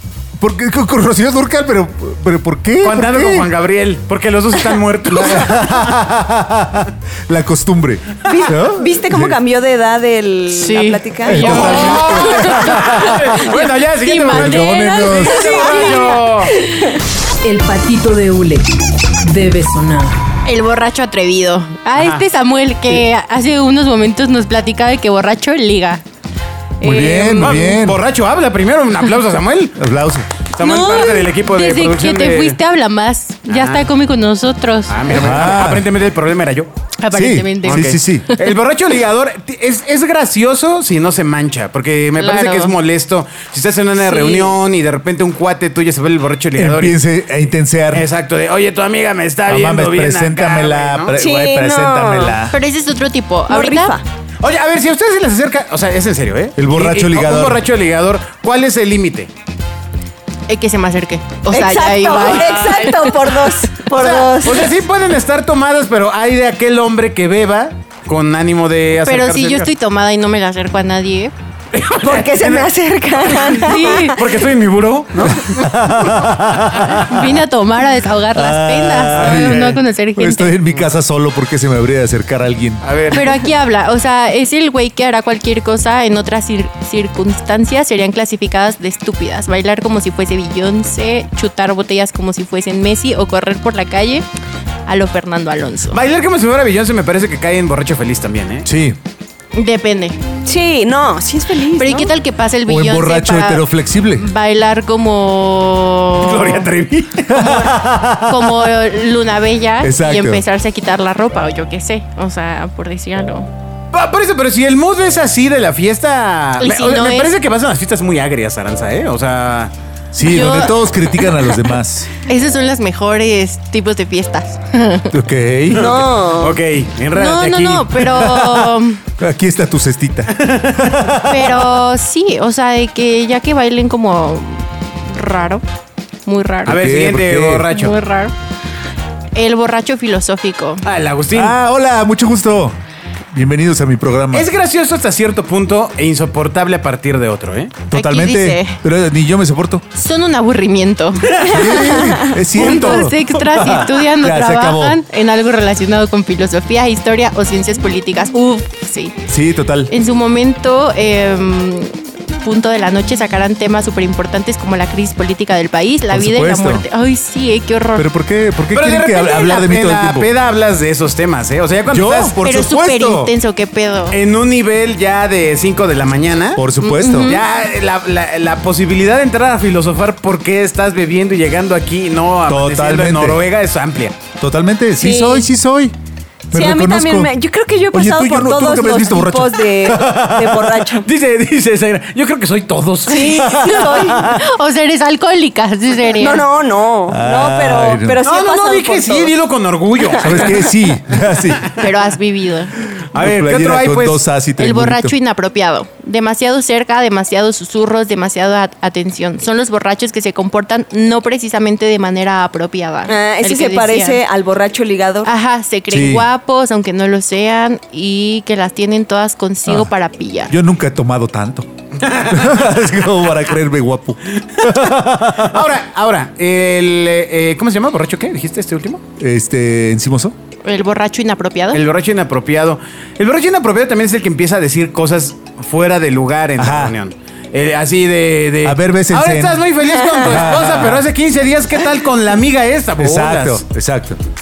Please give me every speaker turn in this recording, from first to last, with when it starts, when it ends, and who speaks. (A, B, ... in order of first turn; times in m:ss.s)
0:00.4-0:03.5 A
0:02.8-0:05.9 B
0:05.1-0:09.4 A
0:08.2-0:12.2 C
0:10.5-0:16.2 D
0:11.2-0:13.4 A
0:11.3-0:16.5 B
0:14.3-0:15.6 A
0:15.4-0:17.0 C
0:17.4-0:18.7 E
0:19.2-0:20.2 E
0:20.4-0:26.0 D
0:22.0-0:22.2 B
0:26.8-0:28.0 A
0:26.8-0:27.8 C
0:27.0-0:29.8 B
0:29.8-0:30.3 A
0:30.5-0:32.6 B
0:30.6-0:35.0 D
0:33.5-0:33.9 B
0:34.9-0:36.7 B
0:35.1-0:35.9 A
0:37.0-0:38.5 D
0:37.1-0:38.3 A
0:37.6-0:47.0 B
0:42.2-0:42.7 D
0:44.1-0:44.5 D
0:46.6-0:48.0 A
0:47.9-0:51.2 B
0:49.5-0:52.6 A
0:51.1-0:52.4 C
0:52.5-0:54.0 D
0:53.5-0:54.0 C
0:54.4-0:59.3 B
0:56.6-0:57.6 A
1:00.5-1:03.5 D
1:01.5-1:04.7 C
1:03.9-1:09.7 B
1:09.0-1:11.3 D
1:11.7-1:15.5 B
1:12.0-1:14.3 C
1:13.6-1:14.2 D
1:15.2-1:17.2 A
1:16.7-1:17.0 B
1:17.0-1:20.5 D
1:18.3-1:22.8 A
1:19.1-1:19.8 B
1:22.8-1:23.4 B
1:23.1-1:34.2 D
1:34.9-1:36.0 D
1:35.9-1:38.7 B
1:38.6-1:39.0 A
1:39.5-1:40.2 D
1:40.4-1:42.1 C
1:41.8-1:46.7 D
1:42.7-1:44.2 A
1:46.2-1:47.7 B
1:47.3-1:48.7 A
1:48.2-1:53.5 D
1:49.8-1:50.4 A
1:53.9-1:59.7 B
1:56.6-1:57.3 D
2:00.1-2:02.1 A
2:00.2-2:01.5 D
2:02.2-2:05.1 D
2:05.1-2:06.0 A
2:05.7-2:08.0 B
2:05.7-2:06.6 C
2:07.1-2:09.0 D
2:08.0-2:11.7 A
2:10.3-2:11.0 B
2:11.2-2:15.6 D
2:16.2-2:16.8 D
2:16.6-2:17.7 A
2:16.7-2:18.0 B
2:17.7-2:18.3 D
2:19.3-2:20.8 D
2:20.8-2:21.6 B
2:21.3-2:22.8 A
2:23.3-2:24.5 A
2:24.3-2:27.8 B
2:27.9-2:29.8 A
2:27.9-2:28.8 D
2:29.9-2:32.0 D
2:31.2-2:33.1 B
2:31.4-2:35.0 A
2:32.5-2:39.2 D
2:39.3-2:39.9 A
2:39.9-2:48.1 D
2:46.1-2:46.8 A
2:48.0-2:50.3 A
2:48.7-2:52.3 B
2:51.9-2:53.3 A
2:52.4-2:54.2 D
2:54.1-2:56.6 B
2:56.6-2:57.4 A
2:56.8-2:57.4 D
2:57.2-3:04.2 B
3:02.5-3:03.4 A
3:04.4-3:05.9 A
3:05.0-3:05.5 C
3:06.5-3:07.3 A
3:06.5-3:11.1 C
3:07.9-3:10.9 A
3:11.0-3:13.7 B
3:13.1-3:14.3 C
3:13.3-3:16.4 D
3:13.4-3:14.4 A
3:16.1-3:19.3 C
3:17.1-3:18.2 A
3:18.2-3:20.7 B
3:20.2-3:21.7 A
3:21.7-3:22.7 D
3:23.1-3:24.2 B
3:23.1-3:25.1 A
3:24.6-3:34.2 D
3:33.1-3:35.3 C
3:35.2-3:40.5 D
3:35.9-3:36.3 A
3:40.5-3:41.7 A
3:42.0-3:42.7 B
3:42.2-3:45.7 A
3:44.5-3:49.0 B
3:49.2-3:50.4 A
3:50.6-3:51.8 D
3:51.7-4:03.6 B
3:56.6-3:57.0 A
3:58.6-3:59.6 A
4:00.0-4:00.3 C
4:00.2-4:01.1 A
4:03.0-4:04.2 A